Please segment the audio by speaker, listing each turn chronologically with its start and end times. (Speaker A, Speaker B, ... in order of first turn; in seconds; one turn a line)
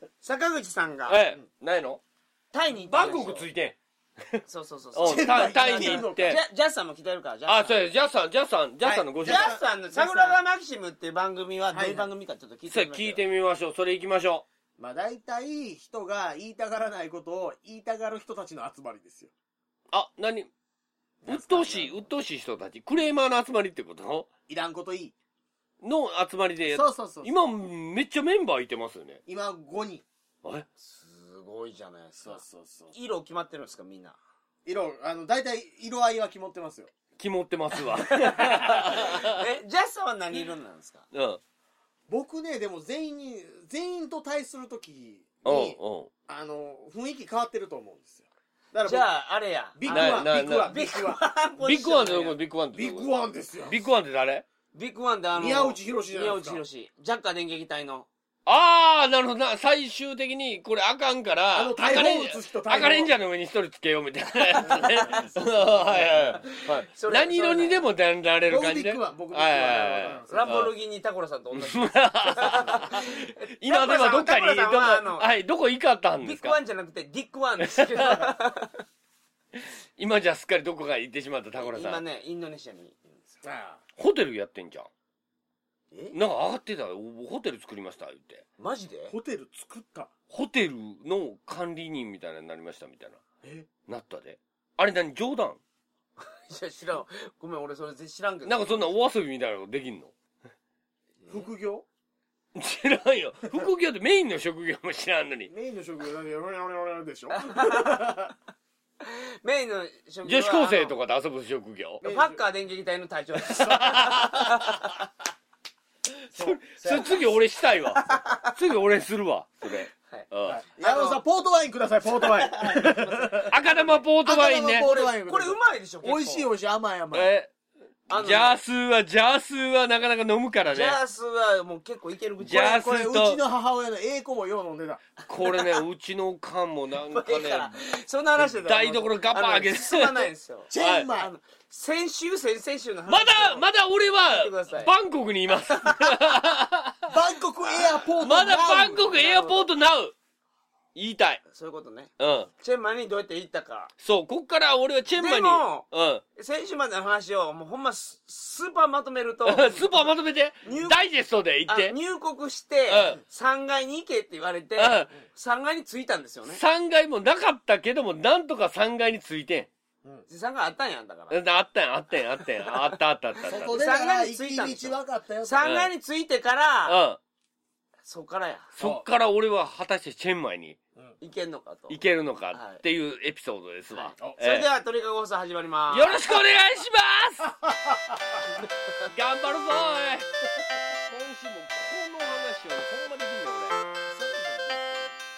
Speaker A: 0.2-1.2
Speaker B: 1.1-2.0
Speaker A: 2.5-3.5
Speaker B: 2.9-3.8
Speaker A: 4.5-7.9
Speaker B: 5.0-6.4
Speaker C: 5.0-6.4
Speaker B: 7.5-9.6
Speaker A: 8.8-13.2
Speaker C: 9.2-10.4
Speaker C: 11.7-12.1
Speaker B: 12.7-14.4
Speaker C: 14.8-19.3
Speaker B: 19.9-20.5
Speaker B: 21.3-24.3
Speaker A: 21.3-22.0
Speaker C: 24.5-25.1
Speaker B: 25.8-29.2
Speaker C: 26.7-27.3
Speaker C: 29.3-30.0
Speaker A: 30.8-32.4
Speaker C: 32.2-33.0
Speaker A: 32.9-34.2
Speaker C: 34.7-36.9
Speaker B: 37.2-39.4
Speaker C: 38.2-38.9
Speaker A: 39.0-41.0
Speaker B: 41.1-41.4
Speaker C: 42.1-49.1
Speaker B: 45.4-46.1
Speaker A: 48.8-52.4
Speaker C: 49.8-51.2
Speaker B: 49.9-50.8
Speaker B: 51.6-53.1
Speaker C: 52.7-53.8
Speaker B: 53.7-54.4
Speaker A: 54.7-58.1
Speaker C: 55.4-56.6
Speaker B: 58.5-70.7
Speaker C: 61.5-63.1
Speaker A: 64.5-67.9
Speaker C: 64.6-65.3
Speaker C: 68.5-70.3
Speaker A: 70.3-75.3
Speaker B: 71.5-76.6
Speaker A: 76.2-78.8
Speaker B: 77.6-78.3
Speaker B: 79.5-82.0
Speaker A: 81.5-83.3
Speaker C: 83.4-83.8
Speaker B: 84.0-84.9
Speaker A: 85.9-86.2
Speaker B: 86.1-88.4
Speaker A: 88.6-89.2
Speaker C: 89.1-90.1
Speaker B: 90.3-93.2
Speaker B: 93.9-95.6
Speaker A: 96.2-98.9
Speaker B: 98.5-100.1
Speaker C: 101.3-101.8
Speaker B: 102.5-105.5
Speaker C: 105.5-108.3
Speaker A: 107.4-108.1
Speaker A: 109.0-111.0
Speaker B: 110.2-112.0
Speaker C: 112.0-112.4
Speaker A: 112.0-114.9
Speaker B: 113.5-114.5
Speaker B: 116.3-120.6
Speaker C: 116.3-117.2
Speaker A: 118.1-118.5
Speaker C: 120.5-123.5
Speaker A: 120.8-121.2
Speaker A: 122.2-124.0
Speaker B: 123.5-124.9
Speaker C: 124.2-127.3
Speaker A: 124.8-126.5
Speaker B: 127.1-127.5
Speaker A: 128.1-128.6
Speaker B: 128.1-131.0
Speaker A: 130.7-132.8
Speaker B: 132.4-133.4
Speaker C: 132.6-135.0
Speaker B: 135.3-137.8
Speaker A: 135.4-135.8
Speaker A: 137.1-143.7
Speaker B: 138.6-141.1
Speaker C: 140.7-141.3
Speaker B: 143.1-147.1
Speaker A: 144.2-144.9
Speaker C: 147.1-149.2
Speaker A: 147.6-147.9
Speaker B: 148.2-150.2
Speaker A: 148.9-149.7
Speaker B: 150.9-151.4
Speaker A: 151.5-153.9
Speaker B: 152.2-152.5
Speaker B: 154.0-156.2
Speaker A: 155.1-155.8
Speaker A: 156.4-159.9
Speaker B: 159.5-161.9
Speaker A: 160.6-161.0
Speaker A: 161.7-166.6
Speaker B: 162.9-163.2
Speaker B: 164.8-165.1
Speaker B: 166.5-169.7
Speaker A: 170.3-171.4
Speaker B: 171.3-173.8
Speaker A: 173.4-177.0
Speaker C: 173.4-175.6
Speaker B: 175.6-175.9
Speaker B: 176.9-177.2
Speaker A: 178.1-178.7
Speaker B: 178.8-180.8
Speaker C: 178.8-179.1
Speaker A: 181.2-182.0
Speaker B: 181.9-184.7
Speaker A: 182.5-182.8
Speaker A: 183.9-186.2
Speaker B: 185.9-187.5
Speaker C: 187.6-188.4
Speaker B: 189.1-190.3
Speaker B: 191.1-193.8
Speaker C: 194.1-195.1